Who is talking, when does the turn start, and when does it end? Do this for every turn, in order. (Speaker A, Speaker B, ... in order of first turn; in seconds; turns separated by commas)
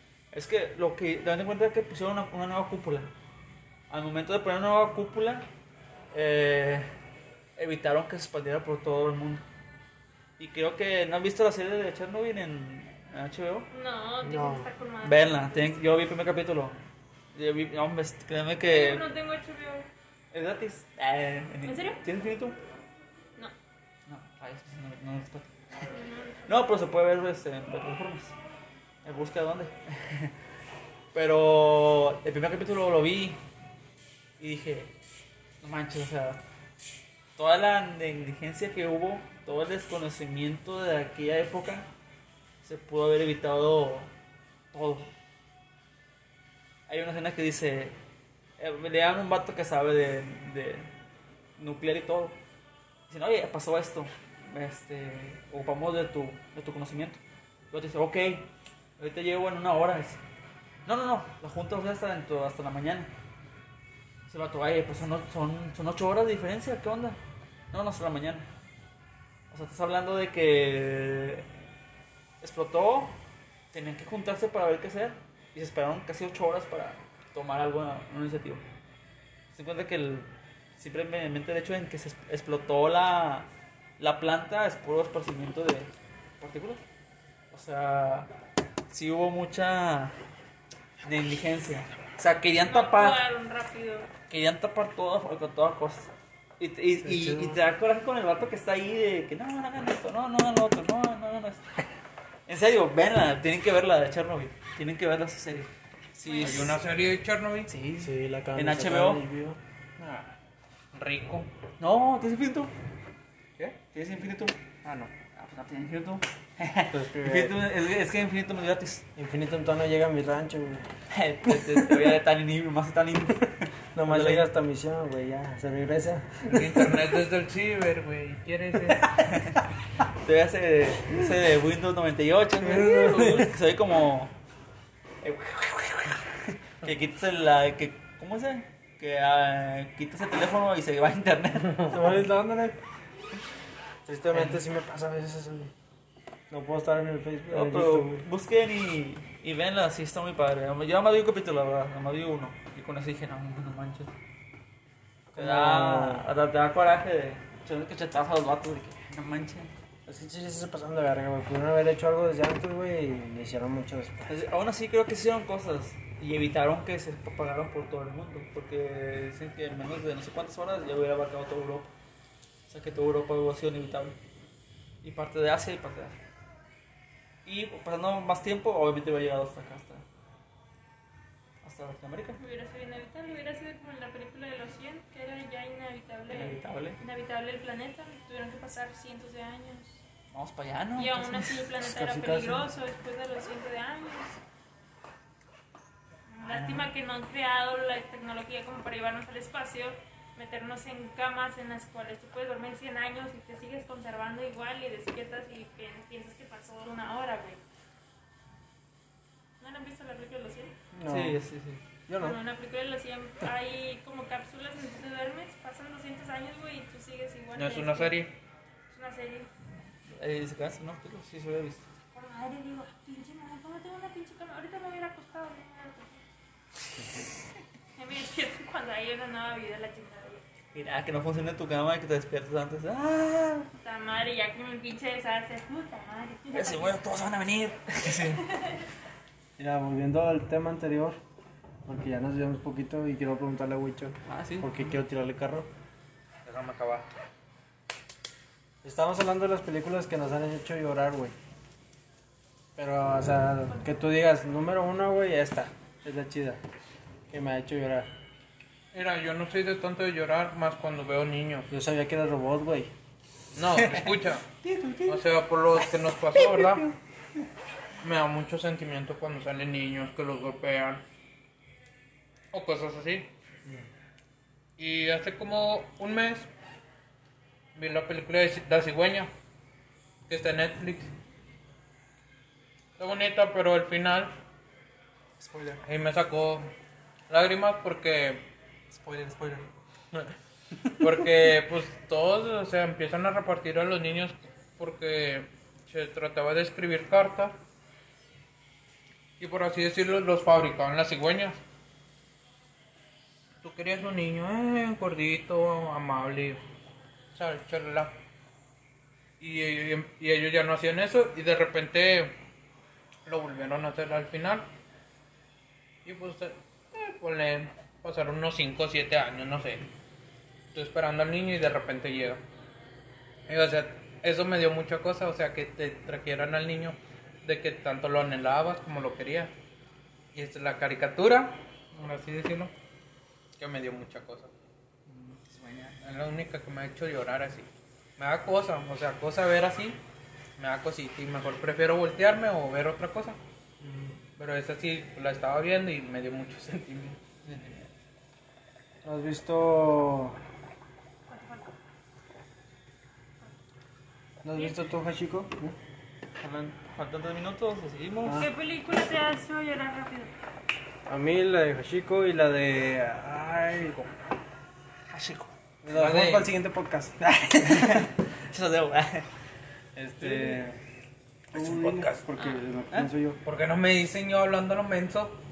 Speaker A: 0.3-3.1, Speaker A: 3.9-5.4, Speaker A: 6.1-6.9, Speaker A: 7.6-9.4, Speaker A: 10.4-13.7, Speaker B: 13.7-15.8, Speaker C: 14.2-14.7, Speaker A: 15.0-16.8, Speaker A: 17.3-19.1, Speaker B: 18.6-19.9, Speaker A: 20.3-22.6, Speaker B: 21.6-22.0, Speaker A: 24.1-25.9, Speaker B: 25.9-26.7, Speaker A: 26.5-28.3, Speaker A: 29.0-30.3, Speaker A: 31.1-33.4, Speaker A: 34.4-34.9, Speaker A: 35.6-36.4, Speaker A: 37.4-41.9, Speaker A: 42.6-44.1, Speaker A: 44.7-45.1, Speaker A: 46.9-47.9, Speaker A: 48.6-50.9, Speaker A: 51.6-52.4, Speaker A: 53.1-57.2, Speaker A: 57.7-60.2, Speaker A: 60.9-63.1, Speaker A: 64.3-67.2, Speaker A: 67.7-68.5, Speaker A: 69.5-71.5, Speaker A: 72.4-73.1, Speaker A: 73.7-78.6, Speaker A: 79.5-83.5, Speaker A: 84.0-86.8, Speaker A: 87.5-88.3, Speaker A: 88.9-90.1, Speaker A: 91.0-93.2, Speaker B: 92.6-94.1, Speaker A: 94.3-101.7, Speaker C: 97.0-97.6, Speaker A: 102.5-106.8, Speaker B: 106.3-106.7, Speaker D: 106.4-107.7, Speaker A: 107.7-109.2, Speaker C: 108.0-109.6, Speaker D: 110.0-110.3, Speaker D: 110.9-111.5, Speaker A: 111.8-112.7, Speaker A: 113.9-114.5, Speaker D: 114.8-115.1, Speaker A: 115.3-119.0, Speaker C: 116.9-117.6, Speaker C: 119.2-120.9, Speaker A: 121.1-124.5, Speaker C: 121.5-121.9, Speaker C: 123.9-126.9, Speaker D: 126.5-129.0, Speaker A: 129.0-129.6, Speaker A: 130.2-134.3, Speaker C: 132.6-133.5, Speaker A: 135.2-142.2, Speaker C: 141.8-142.8, Speaker C: 144.1-145.7, Speaker A: 144.3-144.6, Speaker C: 146.5-148.2, Speaker A: 147.5-154.1, Speaker C: 155.3-156.2, Speaker A: 155.4-159.7, Speaker C: 160.1-164.3, Speaker A: 164.3-171.9, Speaker A: 172.7-174.2, Speaker A: 175.0-176.2, Speaker A: 177.4-180.0, Speaker A: 181.6-182.4, Speaker B: 182.4-190.0, Speaker A: 186.3-187.0, Speaker A: 190.3-191.7, Speaker B: 191.0-194.4, Speaker C: 191.8-192.7, Speaker B: 196.3-207.6, Speaker A: 196.4-196.9, Speaker B: 209.6-210.7, Speaker C: 210.9-211.4, Speaker A: 211.1-211.8, Speaker C: 212.1-212.4, Speaker B: 212.2-218.2, Speaker D: 217.5-218.3, Speaker B: 218.9-219.5, Speaker A: 220.1-221.9, Speaker B: 222.1-226.2, Speaker B: 227.9-230.4, Speaker A: 230.7-233.7, Speaker B: 233.8-237.0, Speaker A: 236.5-238.6, Speaker B: 238.1-238.8, Speaker C: 239.6-241.2, Speaker C: 241.8-245.7, Speaker A: 244.3-245.0, Speaker D: 246.4-247.1, Speaker C: 248.8-251.3, Speaker C: 252.8-256.6, Speaker C: 257.3-258.1, Speaker D: 258.9-261.7, Speaker C: 261.7-262.9, Speaker D: 263.5-264.4, Speaker A: 263.7-265.2, Speaker D: 265.1-266.9, Speaker A: 266.3-266.9, Speaker D: 268.0-271.0, Speaker D: 272.5-273.3, Speaker D: 274.8-276.5, Speaker D: 277.7-279.3, Speaker D: 280.3-281.1, Speaker D: 283.0-284.3, Speaker A: 285.4-285.8, Speaker D: 285.8-286.7, Speaker D: 287.3-288.4, Speaker A: 288.9-289.6, Speaker D: 291.0-297.5, Speaker D: 299.4-301.6, Speaker D: 303.6-306.6, Speaker D: 307.3-308.1, Speaker D: 309.4-312.3, Speaker D: 313.2-314.7, Speaker D: 316.0-319.9, Speaker D: 320.7-322.4, Speaker D: 323.5-329.5, Speaker D: 330.3-332.7, Speaker D: 333.6-334.5, Speaker A: 335.1-336.0, Speaker D: 336.0-340.0, Speaker D: 340.6-343.4, Speaker A: 343.8-344.2, Speaker D: 344.4-347.2, Speaker A: 347.4-347.9, Speaker C: 349.0-350.4, Speaker B: 351.3-351.7, Speaker C: 354.4-355.7, Speaker A: 356.4-358.5, Speaker B: 358.4-360.3, Speaker C: 361.1-364.1, Speaker A: 365.1-365.5, Speaker C: 365.8-368.1, Speaker D: 365.9-366.5, Speaker A: 367.6-369.3, Speaker C: 369.9-370.8, Speaker A: 370.2-370.6, Speaker C: 371.5-373.4, Speaker D: 371.5-372.2, Speaker D: 373.4-375.4